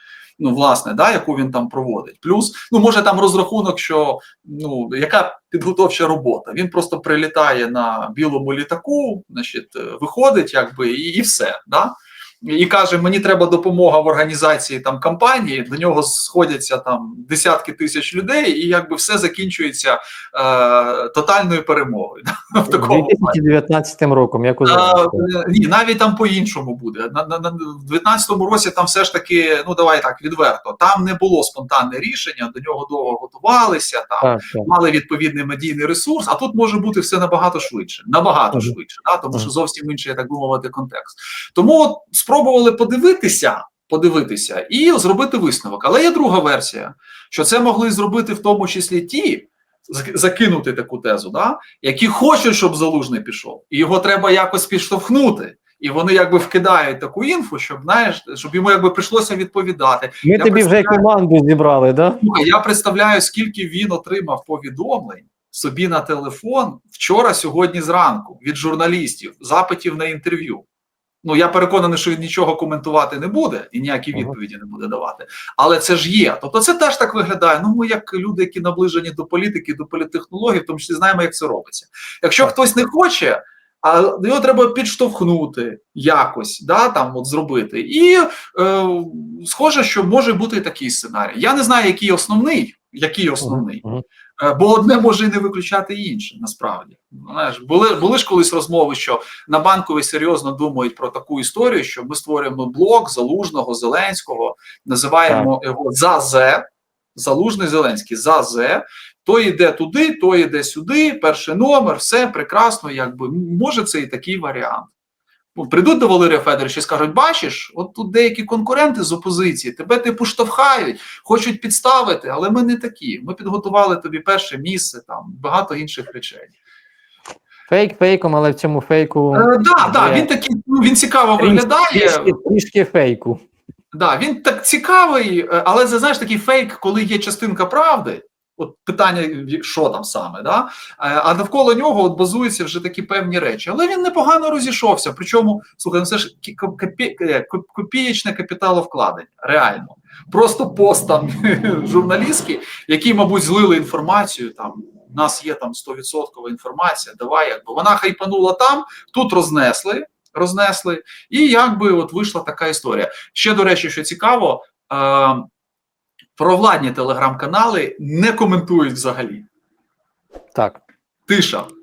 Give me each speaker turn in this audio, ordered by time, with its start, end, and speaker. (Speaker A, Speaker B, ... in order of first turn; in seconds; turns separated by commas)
Speaker A: 0.4-23.4, Speaker B: 22.7-25.3, Speaker A: 24.6-61.0, Speaker B: 34.2-34.7, Speaker B: 60.2-62.2, Speaker A: 62.2-70.6, Speaker A: 71.2-93.8, Speaker B: 93.4-94.0, Speaker A: 94.4-106.6, Speaker A: 107.1-114.9, Speaker A: 115.5-126.5, Speaker B: 127.7-130.3, Speaker A: 129.3-132.3, Speaker B: 131.4-133.4, Speaker A: 133.9-165.5, Speaker A: 166.3-169.5, Speaker B: 170.5-170.8, Speaker A: 171.3-171.7